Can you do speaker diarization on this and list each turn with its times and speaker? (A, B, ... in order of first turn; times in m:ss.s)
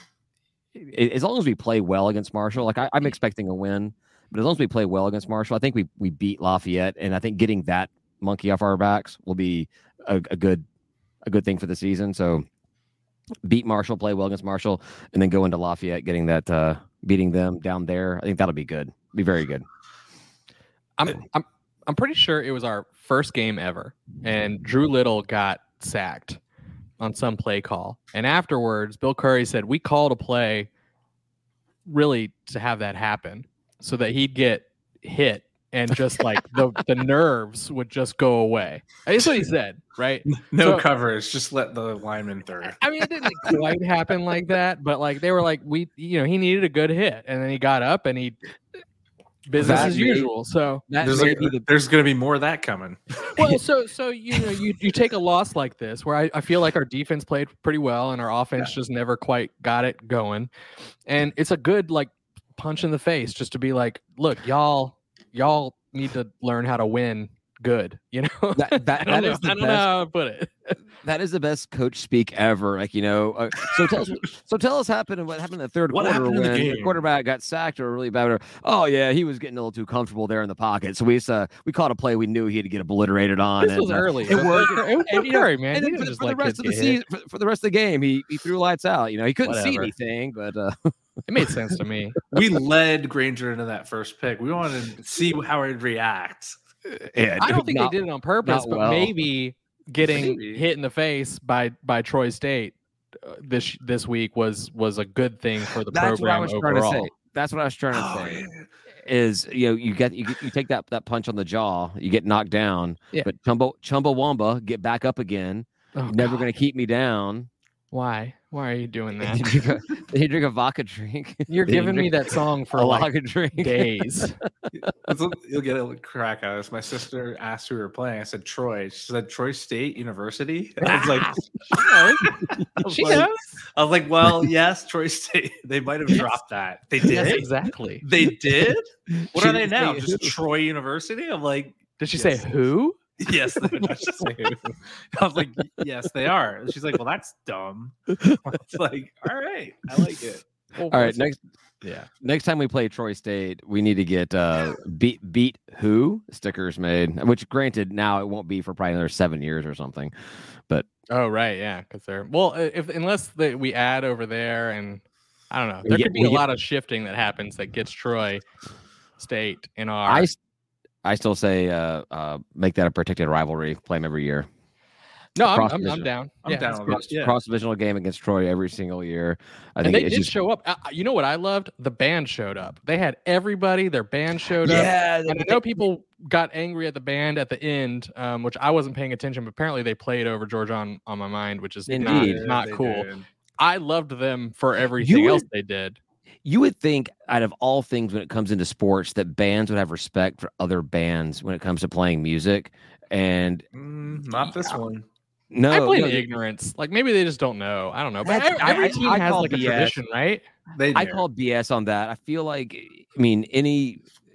0:00.7-0:10.6 A
0:11.2-0:12.4 A
0:13.4-0:19.6 A
0:21.0-0:26.4 B
0:27.0-0:30.7 B
0:31.8-0:40.8 B
0:40.3-0:42.8 C
0:42.8-0:48.4 B
0:49.5-0:50.9 B
0:49.6-0:50.3 A
0:49.6-0:50.0 C
0:50.9-0:51.6 A
0:51.0-0:53.3 C
0:53.3-1:00.5 B
1:01.1-1:10.8 B
1:08.5-1:09.9 A
1:11.0-1:30.9 A
1:15.9-1:17.0 C
1:23.6-1:27.0 B
1:29.4-1:29.9 B
1:31.3-1:32.2 B
1:32.3-1:36.6 C
1:36.8-1:39.2 A
1:37.4-1:47.1 B
1:40.0-1:40.6 C
1:45.9-1:48.4 A
1:47.9-1:48.6 C
1:49.0-1:57.5 A
1:55.9-1:56.4 B
1:57.9-1:59.5 B
1:59.2-2:04.2 A
2:01.5-2:04.4 B
2:04.9-2:11.5 C
2:10.8-2:11.1 B
2:10.9-2:12.6 A
2:11.7-2:13.6 B
2:12.2-2:17.5 C
2:17.1-2:18.0 B
2:18.0-2:22.4 C
2:19.1-2:20.4 A
2:22.0-2:23.0 B
2:23.2-2:30.4 C
2:30.8-2:31.3 B
2:30.9-2:31.4 A
2:31.8-2:32.1 B
2:32.2-2:40.1 A
2:41.1-2:48.4 B
2:45.8-2:46.4 A
2:49.2-2:50.3 B
2:50.0-2:50.4 A
2:51.0-2:54.5 A
2:55.4-2:57.0 B
2:55.4-2:56.1 A
2:56.4-2:57.4 C
2:56.8-3:00.3 A
2:59.8-3:13.1 B
3:04.6-3:05.8 A
3:11.9-3:12.4 A
3:12.0-3:13.2 C
3:13.6-3:16.0 B
3:15.0-3:15.4 A
3:16.4-3:23.6 A
3:23.7-3:25.0 C
3:25.5-3:26.3 A
3:25.7-3:30.4 B
3:28.2-3:30.0 A
3:30.7-3:31.2 C
3:30.9-3:34.0 A